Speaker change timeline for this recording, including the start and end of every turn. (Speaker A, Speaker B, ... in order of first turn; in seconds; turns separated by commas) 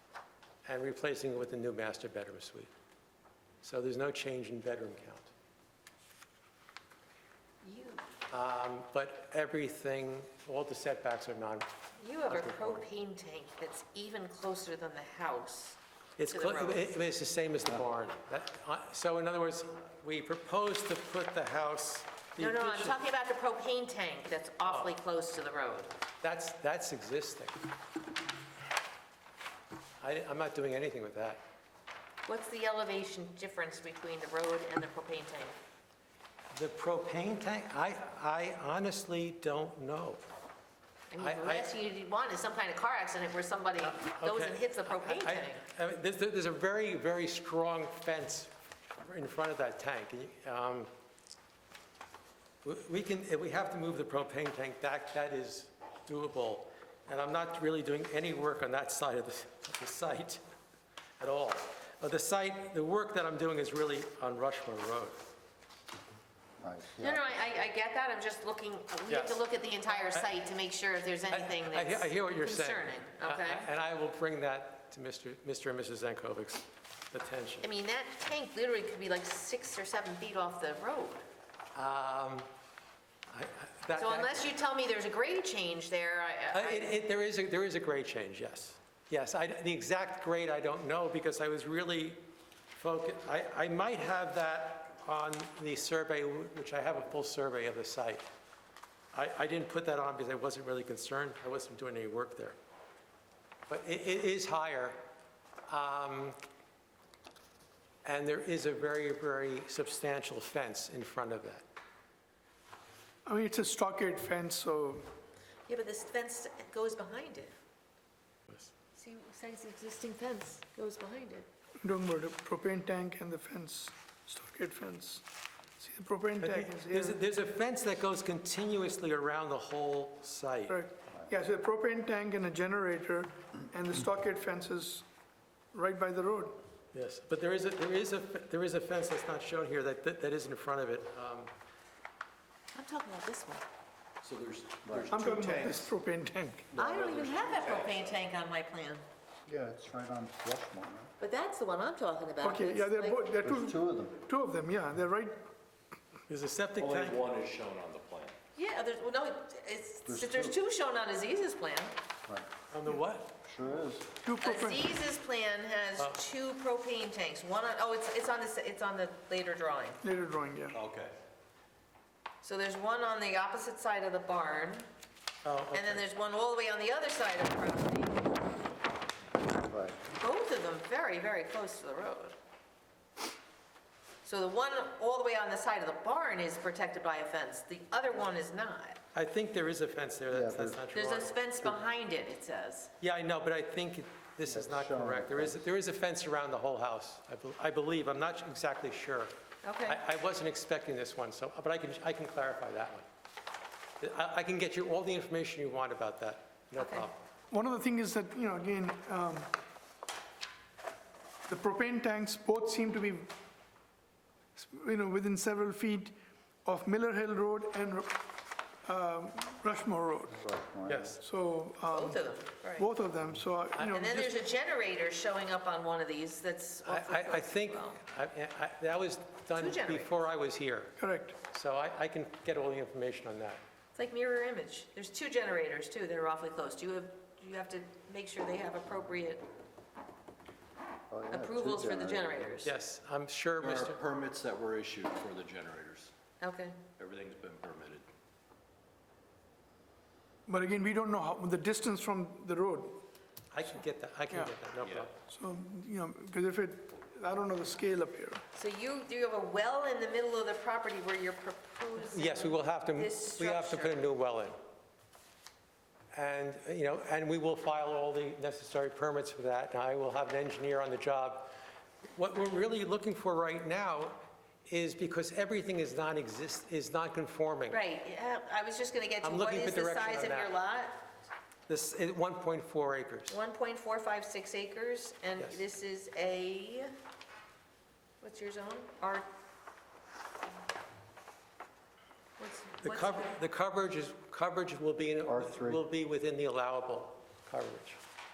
Speaker A: 0.7-2.7, Speaker A: 3.6-5.3, Speaker B: 7.6-8.0, Speaker A: 8.3-11.7, Speaker B: 12.0-15.8, Speaker A: 12.3-12.8, Speaker A: 16.2-23.0, Speaker B: 16.3-16.8, Speaker B: 22.4-25.9, Speaker A: 24.6-24.9, Speaker A: 26.2-27.6, Speaker A: 30.0-31.4, Speaker B: 32.2-35.5, Speaker A: 36.5-40.2, Speaker B: 41.1-45.6, Speaker A: 41.2-41.7, Speaker A: 43.8-50.9, Speaker A: 52.6-60.4, Speaker A: 61.2-65.3, Speaker C: 66.6-67.4, Speaker B: 67.0-73.7, Speaker A: 69.1-69.4, Speaker A: 70.0-70.3, Speaker A: 71.3-77.7, Speaker B: 77.6-81.2, Speaker A: 81.7-82.5, Speaker A: 83.3-84.5, Speaker B: 83.9-86.9, Speaker A: 86.5-92.2, Speaker A: 92.8-98.3, Speaker A: 99.1-102.6, Speaker A: 103.7-105.0, Speaker A: 105.7-106.4, Speaker A: 108.0-111.6, Speaker D: 113.2-115.0, Speaker B: 115.7-117.5, Speaker B: 118.9-121.5, Speaker D: 121.8-125.2, Speaker D: 125.8-127.2, Speaker A: 126.4-130.8, Speaker D: 130.7-135.1, Speaker D: 135.7-136.6, Speaker A: 136.9-141.5, Speaker B: 142.7-143.6, Speaker E: 144.2-145.9, Speaker C: 144.9-145.1, Speaker D: 145.1-146.7, Speaker E: 146.7-148.2, Speaker B: 146.8-149.0, Speaker C: 149.5-151.1, Speaker B: 151.2-153.3, Speaker D: 152.4-155.4, Speaker C: 153.4-154.2, Speaker A: 156.3-157.2, Speaker E: 156.8-158.4, Speaker B: 158.6-161.9, Speaker C: 160.1-160.6, Speaker A: 162.7-163.3, Speaker C: 163.4-164.1, Speaker D: 164.2-164.8, Speaker B: 164.4-170.0, Speaker D: 170.0-170.8, Speaker E: 170.7-171.2, Speaker B: 172.4-174.9, Speaker A: 175.4-176.0, Speaker B: 175.7-178.4, Speaker C: 179.6-180.0, Speaker B: 180.2-182.4, Speaker B: 184.2-189.0, Speaker A: 189.1-191.3, Speaker C: 190.3-190.8, Speaker B: 190.9-192.9, Speaker A: 193.0-199.3, Speaker C: 194.5-195.6, Speaker B: 199.6-200.0, Speaker A: 199.8-203.1, Speaker A: 204.0-207.2, Speaker B: 206.8-207.1, Speaker D: 207.5-209.5, Speaker D: 211.5-213.3, Speaker D: 214.6-216.1, Speaker D: 216.7-218.2, Speaker D: 218.8-220.4, Speaker C: 220.4-221.2, Speaker A: 220.9-221.2, Speaker D: 221.2-224.3, Speaker B: 221.9-222.9, Speaker A: 223.8-224.2, Speaker B: 223.9-228.0, Speaker A: 226.8-230.9, Speaker B: 229.5-230.1, Speaker D: 231.0-231.4, Speaker A: 231.5-233.6, Speaker B: 233.9-239.5, Speaker C: 241.1-242.4, Speaker B: 241.3-242.7, Speaker A: 242.6-244.0, Speaker E: 243.6-246.1, Speaker B: 246.4-246.8, Speaker E: 247.0-248.1, Speaker D: 250.5-253.0, Speaker A: 253.5-255.1, Speaker D: 254.3-254.6, Speaker E: 254.8-255.1, Speaker D: 255.2-258.4, Speaker B: 258.5-264.0, Speaker A: 262.0-264.6, Speaker A: 266.1-271.5, Speaker A: 272.1-277.8, Speaker B: 277.7-281.0, Speaker A: 279.2-280.5, Speaker A: 281.7-283.3, Speaker B: 283.3-286.9, Speaker B: 288.2-289.3, Speaker B: 292.4-293.3, Speaker A: 292.8-298.0, Speaker C: 295.2-295.8